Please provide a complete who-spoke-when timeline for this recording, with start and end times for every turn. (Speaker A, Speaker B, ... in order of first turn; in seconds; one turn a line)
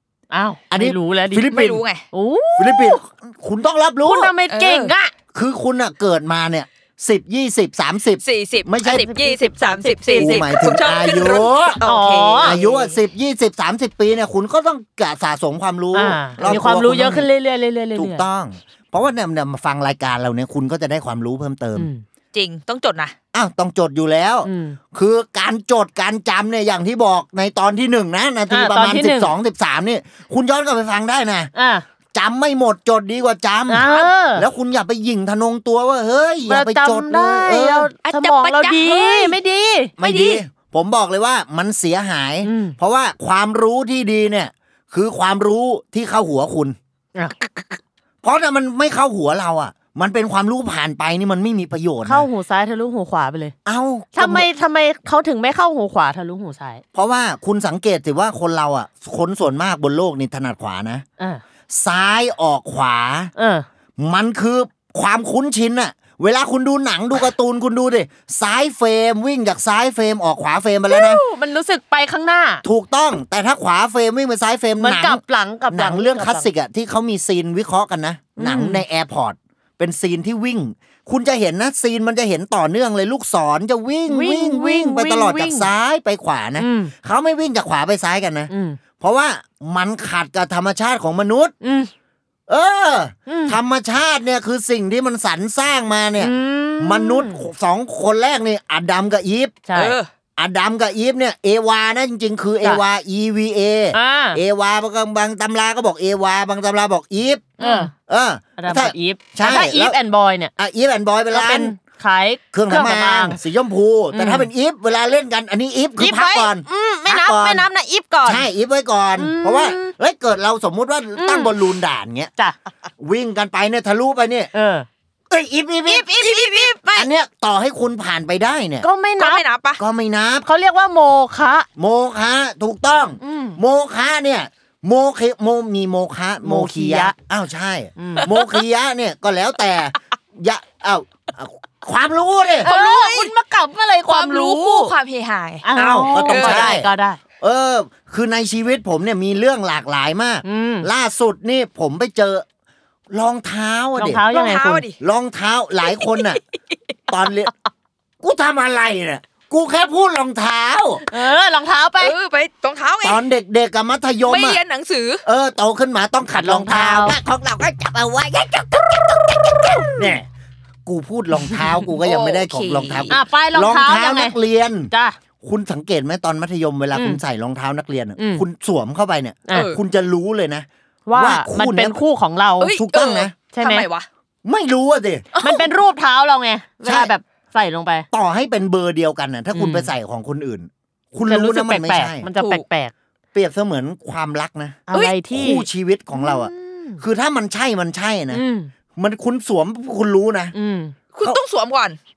Speaker A: 0.3-1.4
Speaker B: 0.7-1.8
Speaker C: 1.5-2.0
Speaker A: 2.1-3.0
Speaker B: 2.6-4.4
Speaker A: 4.0-5.1
Speaker C: 4.5-4.9
Speaker B: 5.3-9.1
Speaker C: 8.2-13.0
Speaker A: 8.9-10.5
Speaker B: 10.2-11.8
Speaker A: 11.8-12.6
Speaker B: 12.4-17.3
Speaker A: 15.9-18.2
Speaker B: 17.9-21.9
Speaker A: 21.8-22.0
Speaker C: 22.3-23.1
Speaker B: 23.3-31.5
Speaker A: 24.4-24.8
Speaker A: 28.5-29.3
Speaker A: 31.5-31.9
Speaker B: 32.1-37.9
Speaker A: 33.7-34.5
Speaker A: 36.5-39.9
Speaker C: 38.0-39.4
Speaker B: 40.0-46.8
Speaker C: 40.0-40.4
Speaker A: 42.4-42.8
Speaker B: 48.2-52.3
Speaker A: 52.0-53.5
Speaker B: 53.6-54.5
Speaker A: 54.1-56.8
Speaker B: 56.9-61.0
Speaker B: 61.7-63.3
Speaker A: 63.4-63.7
Speaker B: 64.0-71.2
Speaker A: 70.9-72.6
Speaker B: 72.6-91.5
Speaker A: 74.8-76.5
Speaker A: 78.4-78.8
Speaker A: 84.1-85.7
Speaker A: 86.6-86.9
Speaker A: 88.5-88.8
Speaker A: 91.6-91.9
Speaker B: 92.5-99.7
Speaker A: 93.3-93.6
Speaker A: 96.2-97.4
Speaker A: 99.7-100.0
Speaker C: 99.7-100.1
Speaker B: 100.4-107.6
Speaker A: 103.9-104.4
Speaker A: 107.6-107.9
Speaker C: 107.6-107.9
Speaker B: 108.1-110.0
Speaker A: 108.6-110.5
Speaker B: 110.6-111.8
Speaker A: 111.3-113.4
Speaker B: 112.5-117.7
Speaker A: 114.1-114.5
Speaker A: 116.0-118.5
Speaker B: 118.2-122.3
Speaker A: 119.2-119.9
Speaker A: 121.2-121.6
Speaker B: 123.0-124.5
Speaker A: 124.5-124.9
Speaker B: 125.3-126.1
Speaker A: 125.9-127.1
Speaker C: 126.2-126.8
Speaker B: 126.9-128.9
Speaker A: 128.8-129.4
Speaker C: 129.2-129.8
Speaker B: 129.8-130.5
Speaker A: 130.4-131.7
Speaker B: 131.8-142.7
Speaker A: 133.2-133.6
Speaker A: 136.4-137.2
Speaker A: 138.0-138.3
Speaker C: 142.6-143.3
Speaker A: 142.6-144.9
Speaker C: 144.1-145.7
Speaker A: 145.6-147.2
Speaker B: 145.8-152.4
Speaker C: 146.2-146.8
Speaker A: 150.4-150.9
Speaker B: 153.1-154.2
Speaker A: 154.0-154.8
Speaker C: 154.3-155.0
Speaker B: 155.0-156.4
Speaker C: 156.0-156.3
Speaker B: 157.1-157.5
Speaker B: 158.2-161.0
Speaker A: 161.1-162.2
Speaker C: 162.0-163.2
Speaker B: 163.0-164.6
Speaker C: 164.2-165.2
Speaker B: 165.2-170.3
Speaker A: 166.3-167.2
Speaker B: 170.9-182.0
Speaker C: 172.0-173.2
Speaker A: 173.1-174.4
Speaker A: 174.9-175.2
Speaker A: 176.9-177.2
Speaker A: 178.2-178.4
Speaker C: 179.5-179.8
Speaker A: 181.1-182.7
Speaker C: 182.6-184.1
Speaker B: 182.7-183.4
Speaker A: 183.5-183.9
Speaker B: 184.4-185.3
Speaker C: 185.3-185.7
Speaker A: 185.4-188.1
Speaker B: 186.8-187.1
Speaker B: 188.1-192.3
Speaker A: 189.5-189.9
Speaker A: 191.2-192.9
Speaker C: 192.4-192.7
Speaker B: 193.3-198.4
Speaker A: 194.9-197.0
Speaker A: 198.3-198.7
Speaker B: 199.0-200.6
Speaker A: 200.5-200.9
Speaker C: 201.1-202.0